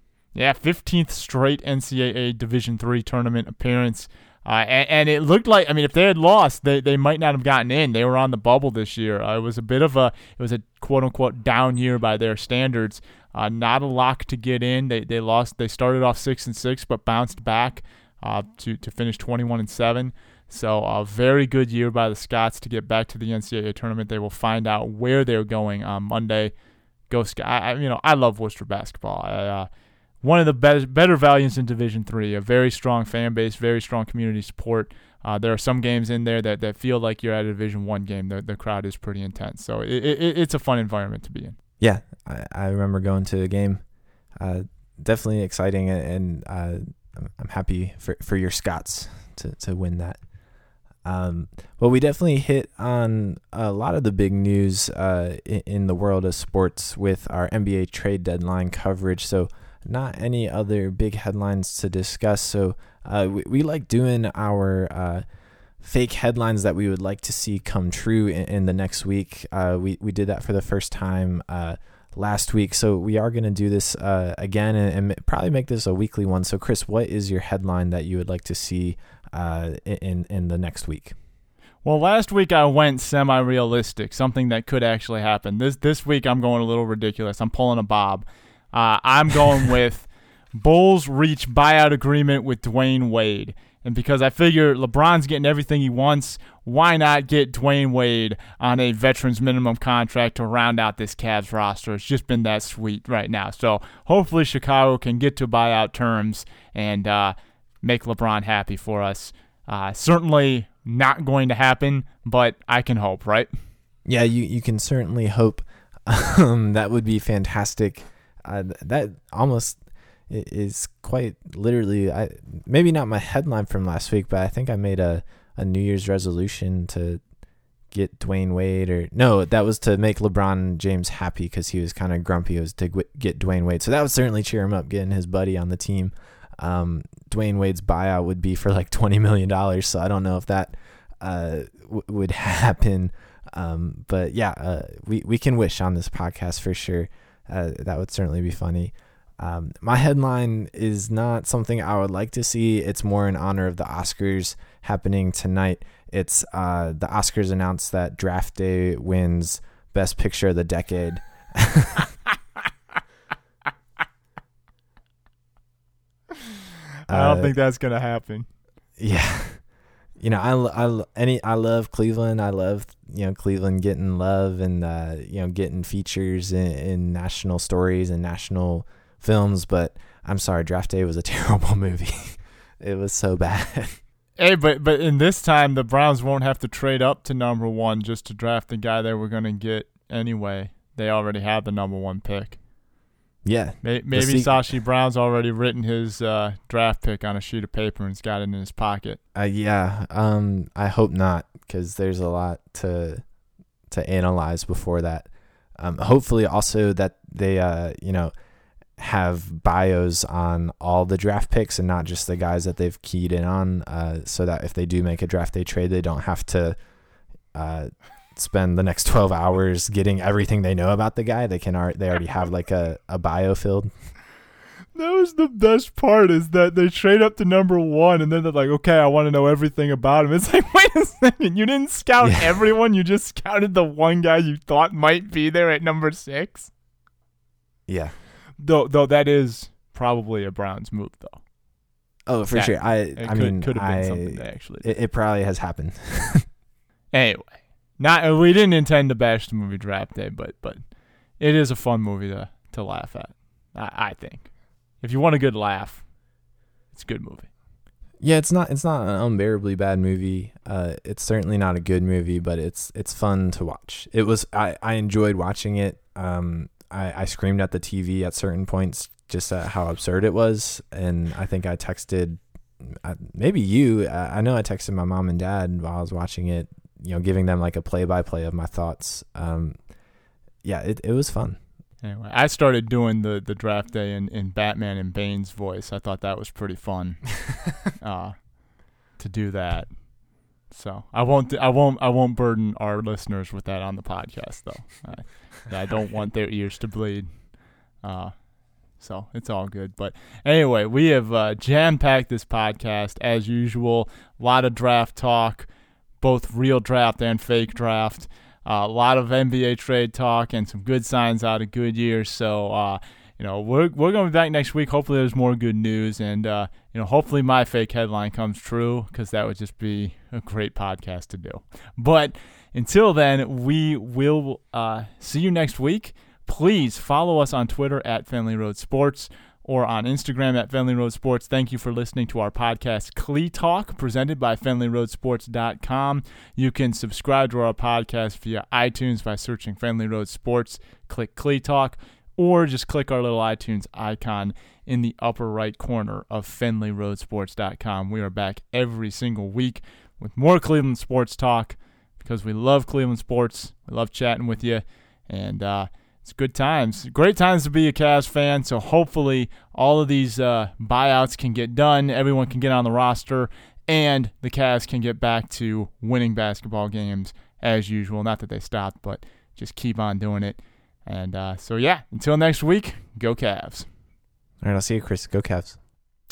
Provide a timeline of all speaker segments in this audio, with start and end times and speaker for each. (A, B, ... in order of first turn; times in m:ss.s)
0:00.3-0:26.5 A
0:27.1-0:29.7 A
0:30.2-0:41.6 A
0:41.8-0:43.8 B
0:44.4-0:50.2 B
0:51.0-1:05.2 B
1:05.8-1:21.2 B
1:21.8-1:53.5 A
1:54.1-1:59.8 B
2:00.3-2:07.2 B
2:07.9-2:42.1 B
2:47.1-2:47.5 B
2:47.1-2:48.5 A
2:49.0-2:49.6 B
2:50.2-3:04.0 B
3:04.4-3:12.6 A
3:13.4-3:14.6 B
3:13.8-3:19.2 A
3:19.4-3:23.2 B
3:23.9-3:25.3 B
3:25.8-3:28.3 B
3:29.0-3:36.8 B
3:37.5-3:43.9 B
3:45.0-3:56.7 A
3:57.9-3:58.1 B
3:58.6-4:01.4 A
4:02.3-4:06.5 B
4:02.5-4:04.9 A
4:07.1-4:10.8 A
4:11.4-4:16.0 A
4:16.9-4:17.5 A
4:18.2-4:39.8 B
4:40.6-4:41.6 B
4:42.0-4:48.6 A
4:49.2-4:50.0 A
4:50.7-4:57.3 A
4:58.0-4:58.4 A
4:59.0-5:05.7 A
5:06.2-6:13.9 A
6:14.6-6:15.8 B